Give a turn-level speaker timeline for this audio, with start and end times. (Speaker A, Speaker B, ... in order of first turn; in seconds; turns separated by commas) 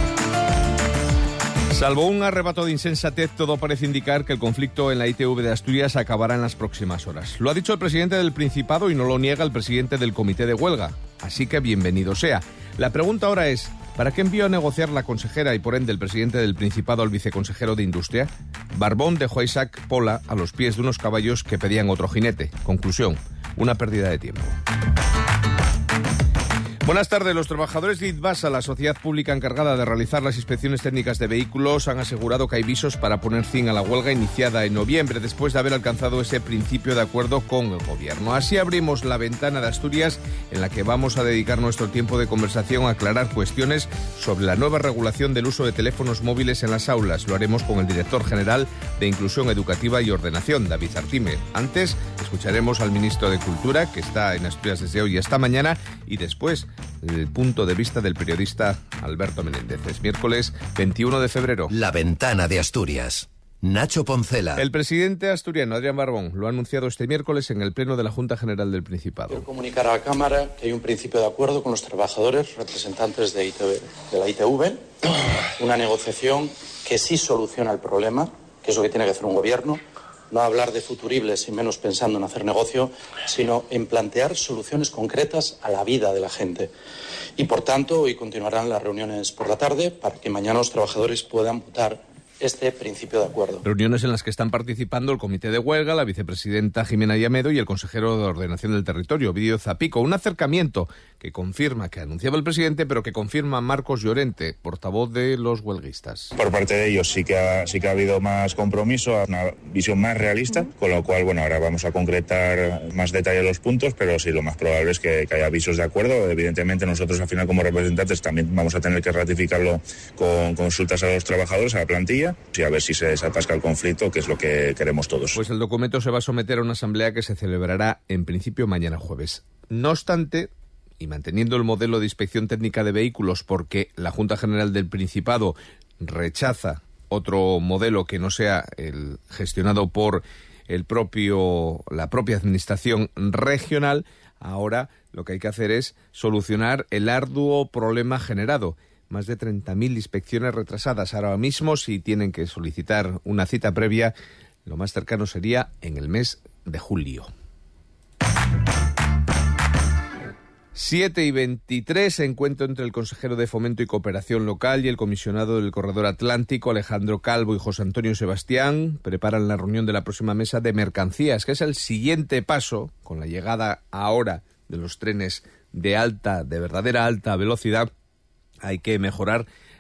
Speaker A: 1.7-24.6, Speaker A: 26.8-61.7, Speaker B: 61.7-64.6, Speaker A: 64.5-69.5, Speaker C: 69.3-86.7, Speaker C: 87.4-93.6, Speaker A: 93.6-106.3, Speaker D: 106.4-125.4, Speaker A: 125.3-154.1, Speaker A: 154.7-157.3, Speaker A: 160.7-177.9, Speaker A: 178.6-179.4